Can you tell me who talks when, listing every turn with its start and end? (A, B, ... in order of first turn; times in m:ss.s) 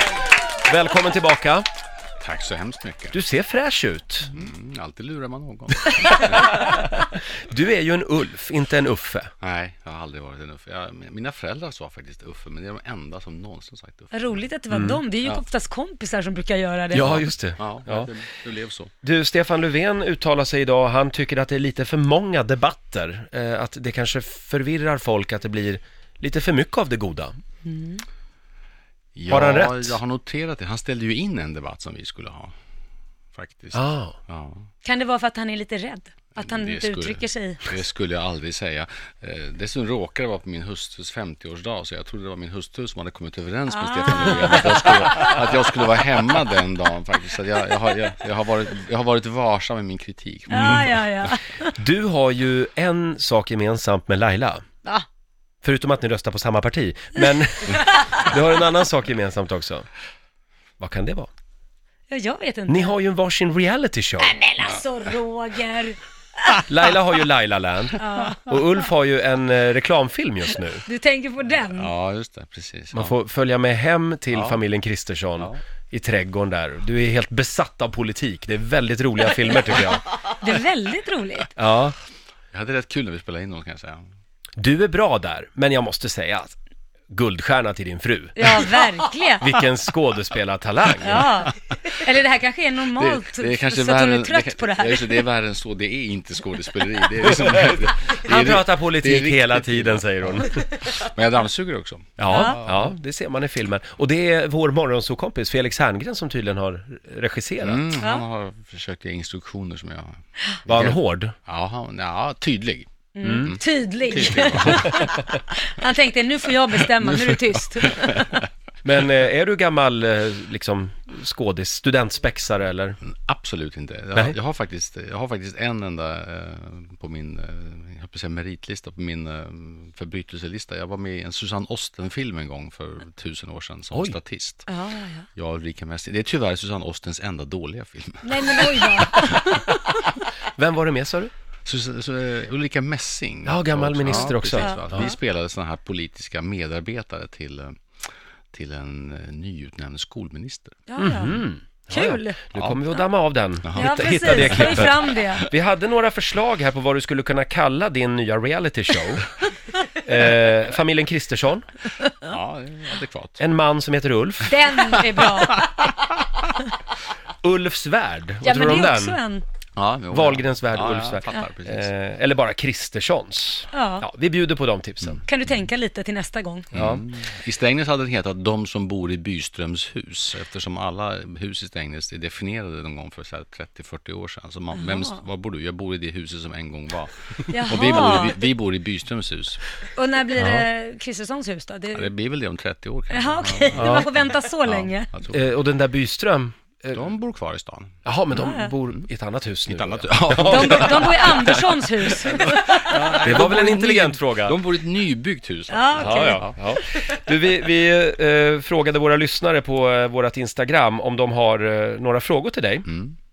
0:00.6-0:01.6 A
0:02.2-0:03.2 B
0:03.1-0:04.4 A
0:04.3-0:06.7 B
0:06.1-0:09.3 A
0:09.4-0:14.4 B
0:14.1-0:17.2 C
0:14.7-0:15.0 A
0:16.9-0:18.1 A
0:17.0-0:18.9 B
0:19.0-0:27.3 A
0:27.6-0:28.0 C
0:29.1-0:32.5 B
0:29.3-0:30.0 A
0:33.3-0:34.7 B
0:33.7-0:34.2 A
0:34.8-0:37.8 C
0:36.3-0:51.0 B
0:43.7-0:45.4 C
0:50.5-0:51.7 C
0:51.8-0:54.6 A
0:55.6-0:59.8 A
1:00.8-1:01.3 A
1:02.1-1:02.9 C
1:02.7-1:04.4 A
1:04.2-1:06.0 C
1:06.7-1:10.8 A
1:08.0-1:08.6 C
1:10.8-1:11.9 C
1:11.6-1:13.1 B
1:12.9-1:20.0 A
1:14.3-1:14.6 B
1:20.3-1:21.5 C
1:21.6-1:22.0 A
1:22.5-1:24.0 B
1:24.6-1:26.6 A
1:27.1-1:28.7 A
1:28.4-1:29.5 C
1:29.4-1:31.4 A
1:31.0-1:35.2 C
1:32.9-1:42.9 B
1:38.2-1:40.6 A
1:42.2-1:47.8 A
1:42.3-1:42.6 C
1:47.6-1:55.2 B
1:50.7-1:51.3 A
1:53.1-1:58.4 C
1:53.2-1:53.6 A
1:57.8-1:58.2 B
1:58.8-2:03.0 A
2:03.0-2:14.7 B
2:14.7-2:15.3 C
2:15.3-2:19.4 B
2:18.2-2:19.6 C
2:20.6-2:21.3 A
2:21.6-2:30.8 B
2:23.4-2:25.1 A
2:24.1-2:25.1 C
2:30.9-2:31.4 C
2:31.0-2:39.3 A
2:31.9-2:32.4 C
2:32.5-2:32.8 B
2:33.6-2:34.9 B
2:33.7-2:35.4 C
2:40.0-2:41.7 A
2:42.2-2:43.4 B
2:43.4-2:45.0 A
2:44.5-2:45.9 C
2:47.4-2:49.2 A
2:48.4-2:49.4 C
2:49.8-2:51.9 B
2:50.1-2:55.2 A
2:53.7-2:54.0 C
2:55.3-2:56.7 C
2:56.7-3:09.6 B
2:56.7-2:57.0 A
3:04.7-3:05.2 C
3:07.5-3:08.4 C
3:09.9-3:12.1 C
3:10.4-3:10.6 A
3:11.9-3:15.4 B
3:13.1-3:15.1 C
3:13.7-3:14.1 A
3:15.3-3:17.0 A
3:16.9-3:18.0 B
3:18.0-3:21.1 A
3:18.3-3:18.7 C
3:19.6-3:26.6 B
3:20.4-3:23.2 C
3:23.2-3:24.6 A
3:25.7-3:26.5 C
3:26.0-3:32.8 A
3:32.8-3:33.2 B